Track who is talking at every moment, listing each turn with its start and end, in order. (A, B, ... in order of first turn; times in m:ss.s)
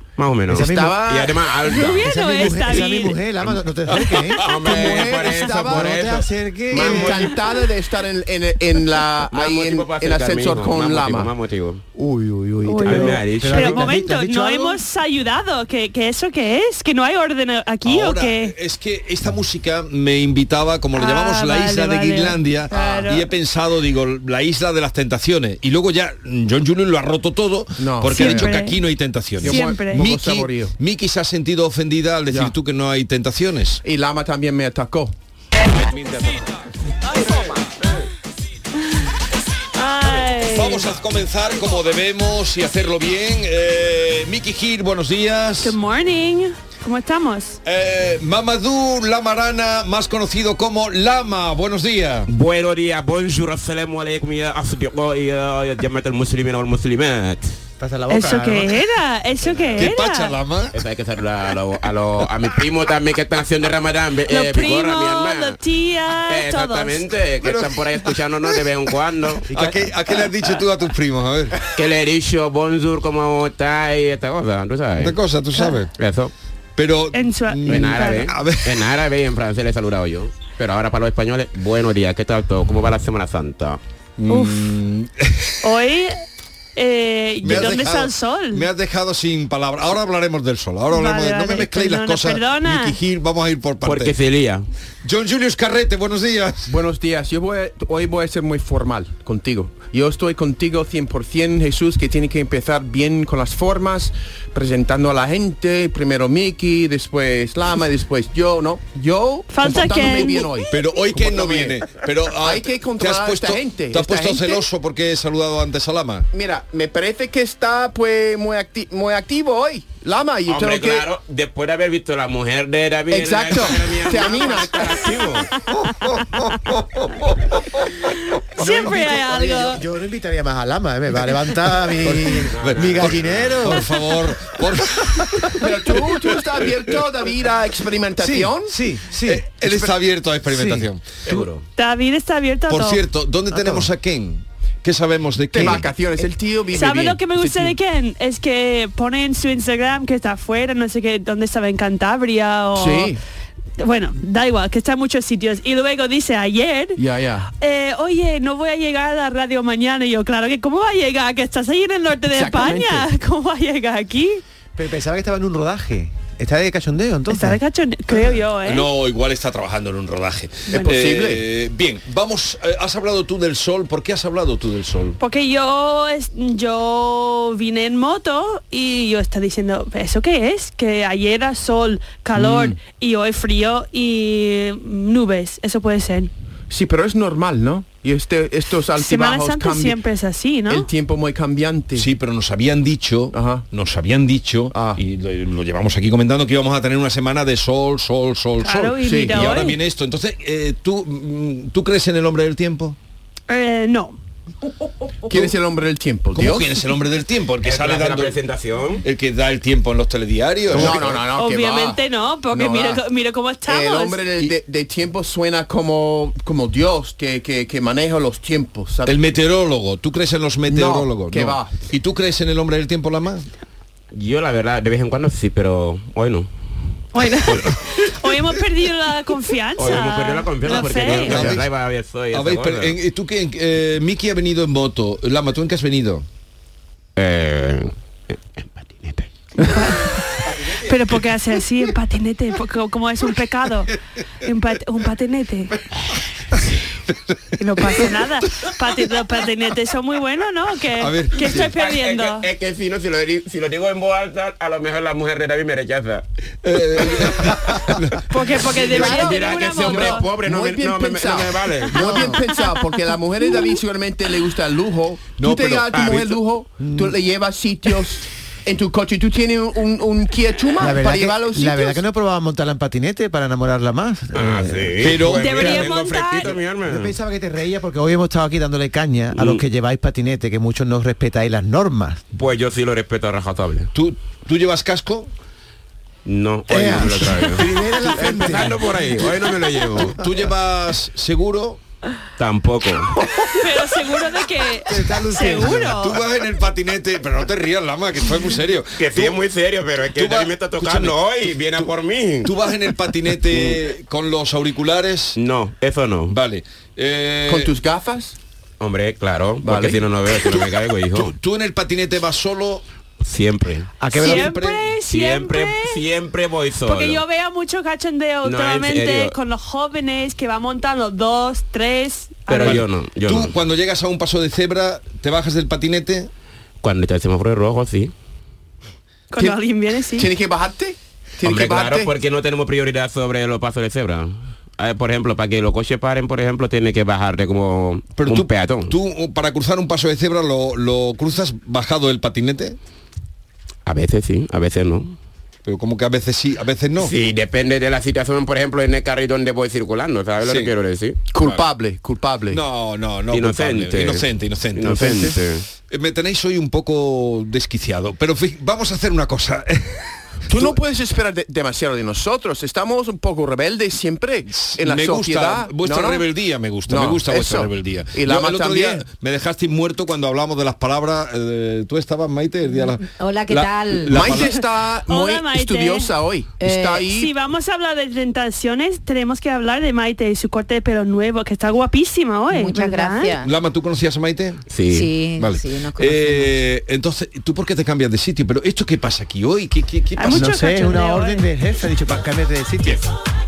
0:00.2-0:02.7 A
0:00.5-0:01.0 B
0:00.5-0:01.5 C
0:01.7-0:03.2 D
0:01.9-0:04.4 B
0:03.9-0:04.6 E
0:04.1-0:07.4 A
0:04.5-0:06.0 C
0:05.6-0:07.2 B
0:06.7-0:11.3 C
0:09.3-0:11.8 A
0:12.0-0:14.8 B
0:12.6-0:18.6 D
0:12.8-0:14.0 A
0:17.8-0:33.8 E
0:20.9-0:23.3 D
0:22.7-0:23.0 C
0:27.8-0:28.6 C
0:28.1-0:28.8 D
0:29.4-0:30.8 C
0:29.4-0:30.1 D
0:32.3-0:32.6 C
0:33.8-0:35.2 C
0:35.8-0:36.4 E
0:39.8-0:40.9 D
0:40.5-0:45.8 E
0:45.6-0:47.6 D
0:47.6-0:52.3 E
0:52.3-0:57.6 A
0:57.8-0:58.7 B
0:58.1-1:00.4 D
0:59.8-1:00.8 E
1:00.7-1:05.6 A
1:04.3-1:07.0 D
1:06.3-1:09.5 A
1:07.4-1:08.2 E
1:09.5-1:11.6 E
1:11.7-1:15.2 A
1:15.0-1:15.9 E
1:16.0-1:16.3 A
1:16.8-1:18.8 E
1:17.1-1:18.3 D
1:17.7-1:23.8 A
1:24.2-1:25.7 E
1:24.3-1:24.7 D
1:25.6-1:26.2 D
1:26.8-1:28.7 D
1:27.4-1:34.2 E
1:30.9-1:33.0 D
1:33.8-1:34.7 A
1:35.0-1:36.7 E
1:36.7-1:54.7 C
1:49.5-1:50.6 D
1:50.7-1:56.3 E
1:56.3-2:01.1 C
2:00.5-2:05.5 A
2:03.1-2:05.1 C
2:05.5-2:06.5 D
2:06.3-2:06.7 E
2:08.6-2:09.8 D
2:08.6-2:14.0 B
2:12.3-2:13.6 A
2:12.6-2:15.6 E
2:15.6-2:18.7 C
2:18.2-2:19.9 B
2:19.2-2:21.1 E
2:20.5-2:21.4 B
2:21.2-2:21.6 A
2:21.8-2:23.0 D
2:22.7-2:26.0 E
2:23.5-2:23.9 B
2:25.5-2:27.8 C
2:26.7-2:33.1 D
2:32.8-2:33.2 C
2:33.8-2:37.0 D
2:37.0-2:37.5 C
2:37.6-2:44.4 D
2:42.3-2:43.1 C
2:44.8-2:47.6 B
2:47.3-2:48.9 D
2:48.6-2:55.2 E
2:50.7-2:51.5 C
2:55.2-3:06.3 D
3:02.4-3:02.8 C
3:06.7-3:10.0 C
3:09.0-3:10.9 D
3:10.7-3:12.1 C
3:12.0-3:23.0 E
3:13.3-3:13.7 C
3:14.7-3:15.0 C
3:18.6-3:19.8 D
3:19.0-3:19.4 C
3:23.5-3:24.2 D
3:25.2-3:26.8 C
3:26.3-3:28.4 E
3:27.6-3:29.0 A
3:29.0-3:31.3 E
3:30.7-3:33.0 C
3:31.4-3:34.2 D
3:33.6-3:39.3 C
3:39.0-3:43.5 E
3:40.7-3:41.8 C
3:44.1-3:46.5 A
3:47.1-3:51.4 D
3:49.8-3:53.0 A
3:51.0-3:51.7 E
3:51.3-3:51.6 C
3:52.3-3:56.2 E
3:57.2-3:59.3 A
3:59.8-4:03.9 D
4:04.4-4:05.8 D
4:07.6-4:12.5 D
4:11.0-4:11.6 E
4:11.6-4:16.2 A
4:16.6-4:18.2 E
4:17.0-4:17.6 A
4:18.3-4:20.3 D
4:18.6-4:32.0 C
4:18.7-4:22.3 A
4:22.0-4:22.4 B
4:25.4-4:26.3 E
4:25.9-4:26.2 A
4:26.8-4:27.2 B
4:30.8-4:35.1 B
4:34.3-4:37.1 A
4:35.0-4:35.9 E
4:35.4-4:36.6 D
4:36.9-4:42.2 B
4:39.3-4:39.6 A
4:42.3-4:43.9 A
4:43.9-4:45.3 E
4:46.3-4:50.2 A
4:46.7-4:49.0 B
4:47.8-4:49.3 E
4:50.0-4:51.8 E
4:52.4-4:53.2 A
4:53.6-4:56.2 D
4:54.9-4:56.1 B
4:55.6-4:59.4 E
4:59.0-5:02.5 A
5:00.2-5:01.2 E
5:02.4-5:05.4 E
5:03.5-5:03.8 A
5:05.4-5:06.4 A
5:06.3-5:07.7 E
5:07.5-5:08.4 C
5:08.8-5:11.3 A
5:09.6-5:10.0 C
5:10.4-5:12.8 E
5:13.2-5:13.9 A
5:14.0-5:14.6 B
5:14.1-5:16.0 D
5:14.2-5:14.9 E
5:15.1-5:17.2 A
5:16.8-5:22.8 D
5:18.4-5:19.3 A
5:22.5-5:23.6 A
5:22.6-5:26.3 E
5:26.8-5:28.1 A
5:29.3-5:30.3 D
5:29.4-5:32.1 C
5:31.4-5:38.9 A
5:38.2-5:42.8 E
5:43.9-5:45.2 A
5:45.7-5:47.1 E
5:47.0-5:51.2 A
5:50.4-5:50.7 E
5:51.3-5:52.6 C
5:52.5-6:00.8 E
5:53.3-5:55.6 A
6:00.5-6:06.3 C
6:04.5-6:14.6 E
6:06.9-6:09.1 C
6:13.2-6:14.4 F
6:14.1-6:17.3 C
6:15.1-6:16.1 D
6:16.6-6:17.1 F
6:17.1-6:23.4 D
6:22.5-6:23.5 F
6:23.4-6:24.6 E
6:24.7-6:25.1 A
6:24.9-6:26.6 F
6:25.4-6:30.5 E
6:30.2-6:31.4 D
6:30.2-6:33.0 B